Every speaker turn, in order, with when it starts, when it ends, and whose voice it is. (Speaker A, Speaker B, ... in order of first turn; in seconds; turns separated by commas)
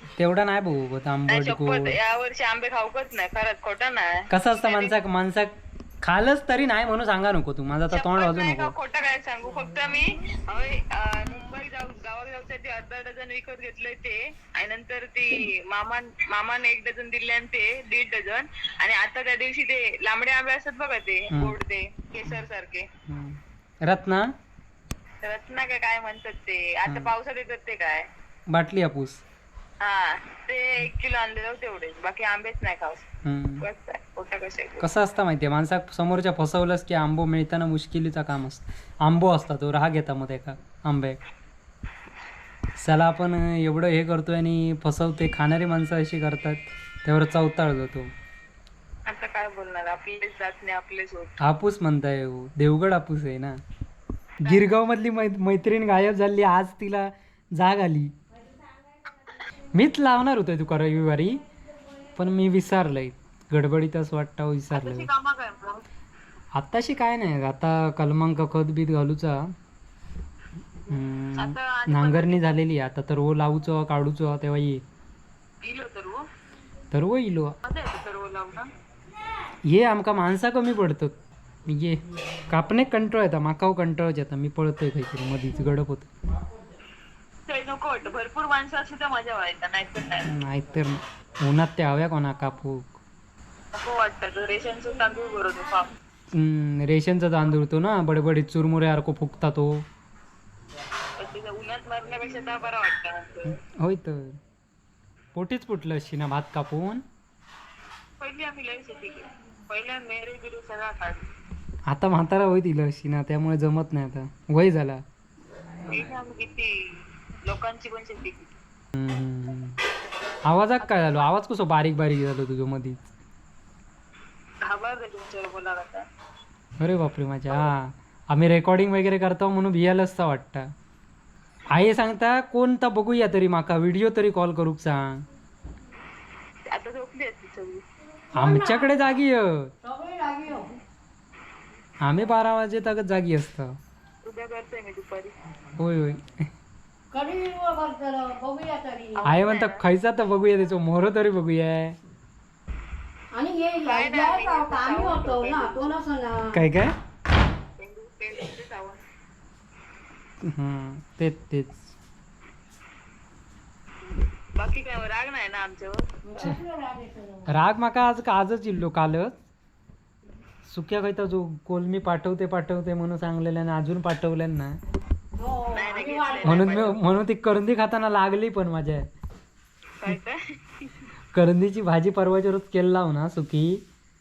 Speaker A: 0.2-2.0, Speaker B: 1.3-5.0, Speaker A: 4.3-8.7, Speaker B: 7.9-22.9, Speaker A: 23.1-24.3, Speaker B: 25.2-28.1, Speaker A: 28.5-29.2, Speaker B: 29.8-33.0, Speaker A: 33.2-33.6, Speaker B: 33.6-34.9, Speaker A: 34.8-41.2, Speaker A: 42.8-48.1, Speaker B: 49.1-51.4, Speaker A: 51.4-53.5, Speaker A: 54.4-58.1, Speaker B: 54.4-54.8, Speaker A: 59.7-61.4, Speaker A: 62.1-65.1, Speaker B: 64.7-65.8, Speaker A: 66.5-69.5, Speaker A: 70.9-74.8, Speaker B: 71.4-72.5, Speaker B: 75.6-76.2, Speaker A: 76.9-77.5, Speaker B: 77.6-78.7, Speaker A: 79.7-86.1, Speaker B: 87.5-90.3, Speaker A: 90.2-92.9, Speaker B: 93.7-95.9, Speaker A: 96.3-99.8, Speaker B: 101.2-103.6, Speaker A: 103.5-104.4, Speaker A: 105.3-107.0, Speaker B: 108.2-111.2, Speaker A: 111.9-115.0, Speaker B: 115.8-118.5, Speaker A: 118.9-119.8, Speaker A: 120.5-123.1, Speaker B: 120.8-121.3, Speaker B: 124.6-126.0, Speaker A: 126.8-130.6, Speaker A: 131.7-135.2, Speaker B: 136.7-137.8, Speaker C: 138.3-139.0, Speaker A: 138.3-139.7, Speaker C: 139.8-140.7, Speaker A: 142.0-143.7, Speaker B: 144.2-145.4, Speaker A: 145.8-146.4, Speaker C: 147.1-149.3, Speaker B: 149.1-149.8, Speaker A: 149.2-152.0, Speaker C: 153.3-156.7, Speaker B: 153.7-156.0, Speaker A: 156.5-156.9, Speaker B: 157.8-159.0, Speaker A: 160.4-161.9, Speaker B: 164.6-166.1, Speaker C: 166.2-167.5, Speaker A: 167.5-169.3, Speaker A: 170.7-174.8, Speaker C: 175.3-176.9, Speaker B: 175.7-177.1, Speaker A: 176.4-179.1, Speaker B: 180.0-180.9, Speaker A: 181.3-183.8